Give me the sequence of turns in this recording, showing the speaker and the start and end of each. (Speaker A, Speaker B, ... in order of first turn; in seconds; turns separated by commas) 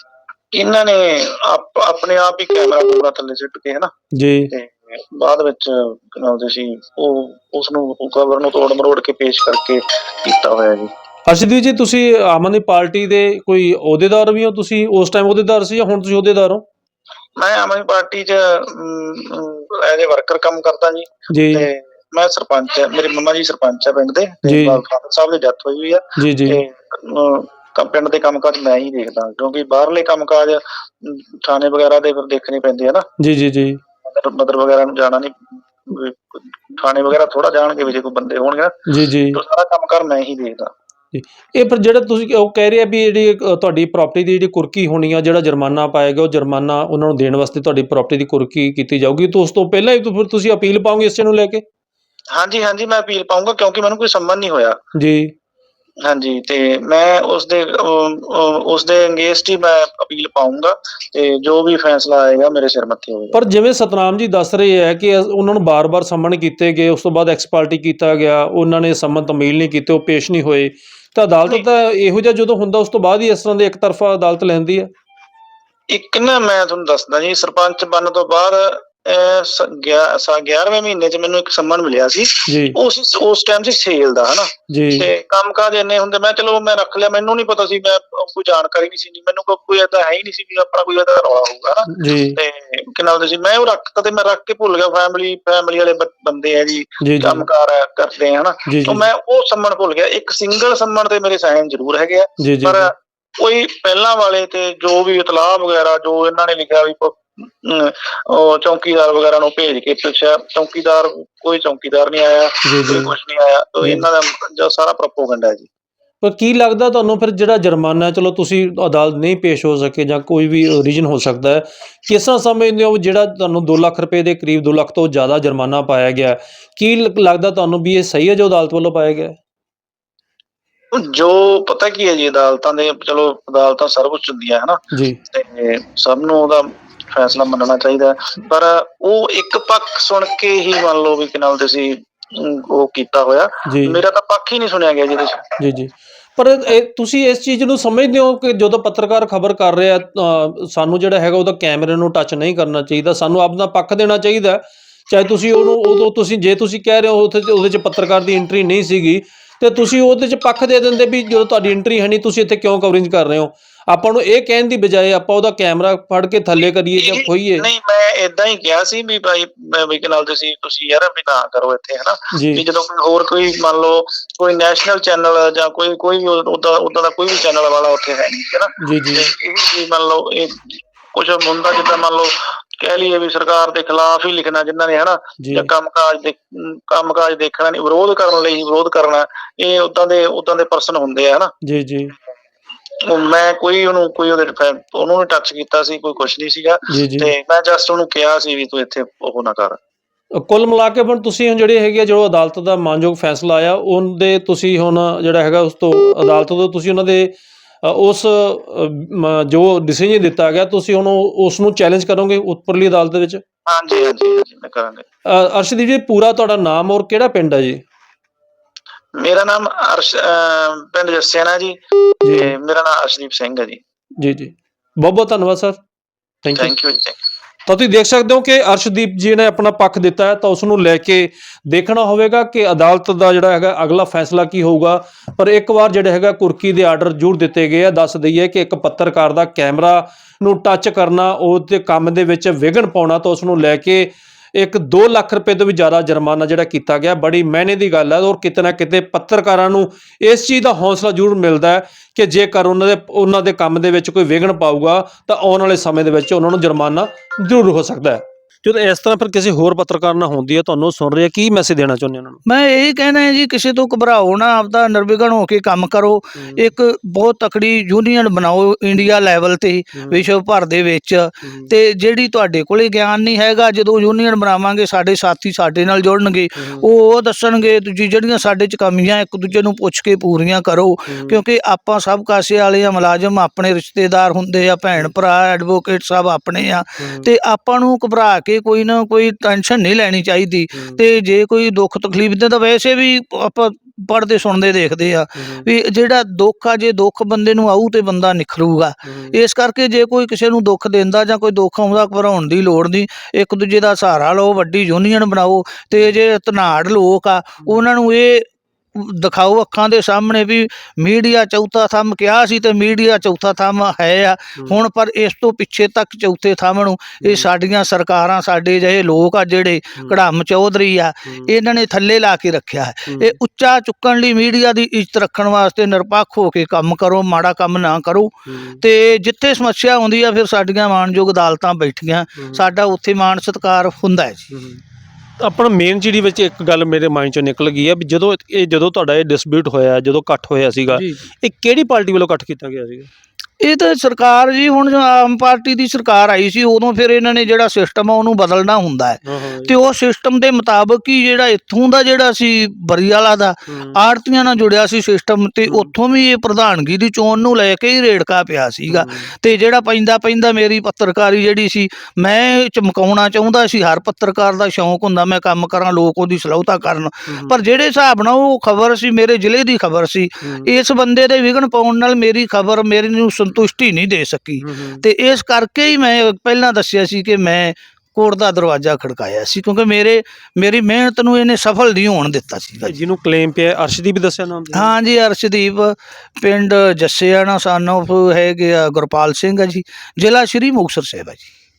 Speaker A: 0.5-3.9, Speaker B: 4.1-4.5, Speaker A: 4.5-10.9, Speaker B: 11.3-16.7, Speaker A: 17.4-33.1, Speaker B: 21.3-21.7, Speaker B: 24.4-24.8, Speaker B: 26.2-26.6, Speaker B: 33.2-33.8, Speaker A: 34.0-40.7, Speaker B: 38.9-39.4, Speaker B: 41.1-51.6, Speaker A: 52.3-54.8, Speaker B: 55.0-55.3, Speaker A: 56.0-63.4, Speaker B: 63.3-74.9, Speaker A: 75.9-115.7, Speaker B: 82.5-82.8, Speaker B: 84.7-85.1, Speaker B: 91.9-92.4, Speaker B: 97.0-97.5, Speaker B: 98.7-99.1, Speaker B: 102.4-102.9, Speaker B: 112.6-113.2, Speaker B: 113.8-114.1, Speaker B: 116.2-129.4, Speaker A: 130.9-145.6, Speaker B: 134.9-135.2, Speaker B: 143.7-144.0, Speaker B: 145.6-167.7, Speaker A: 166.9-191.5, Speaker B: 172.3-172.6, Speaker B: 178.8-179.3, Speaker B: 185.4-185.7, Speaker B: 191.6-192.1, Speaker A: 193.0-199.8, Speaker B: 196.9-197.3, Speaker B: 200.3-213.4, Speaker A: 213.7-215.1, Speaker B: 215.2-217.8, Speaker A: 219.2-223.8, Speaker B: 222.2-222.6, Speaker B: 224.2-225.8, Speaker B: 226.4-226.8, Speaker A: 226.6-227.2, Speaker B: 227.7-262.4, Speaker C: 262.5-334.5, Speaker B: 266.4-266.6, Speaker B: 270.0-270.2, Speaker B: 271.4-271.7, Speaker B: 276.6-276.9, Speaker B: 281.1-281.4, Speaker B: 287.0-287.3, Speaker B: 290.7-291.0, Speaker B: 295.4-295.7, Speaker B: 299.0-299.4, Speaker B: 314.6-314.8, Speaker B: 323.1-323.4, Speaker B: 328.5-328.8, Speaker B: 332.4-332.6, Speaker B: 334.5-334.8, Speaker B: 335.4-343.1, Speaker C: 340.9-341.3, Speaker C: 343.6-382.9, Speaker B: 349.2-349.7, Speaker B: 353.7-354.0, Speaker B: 355.6-355.9, Speaker B: 358.9-359.3, Speaker B: 367.3-367.6, Speaker B: 370.4-370.7, Speaker B: 374.6-375.0, Speaker B: 382.9-384.9, Speaker C: 384.7-391.5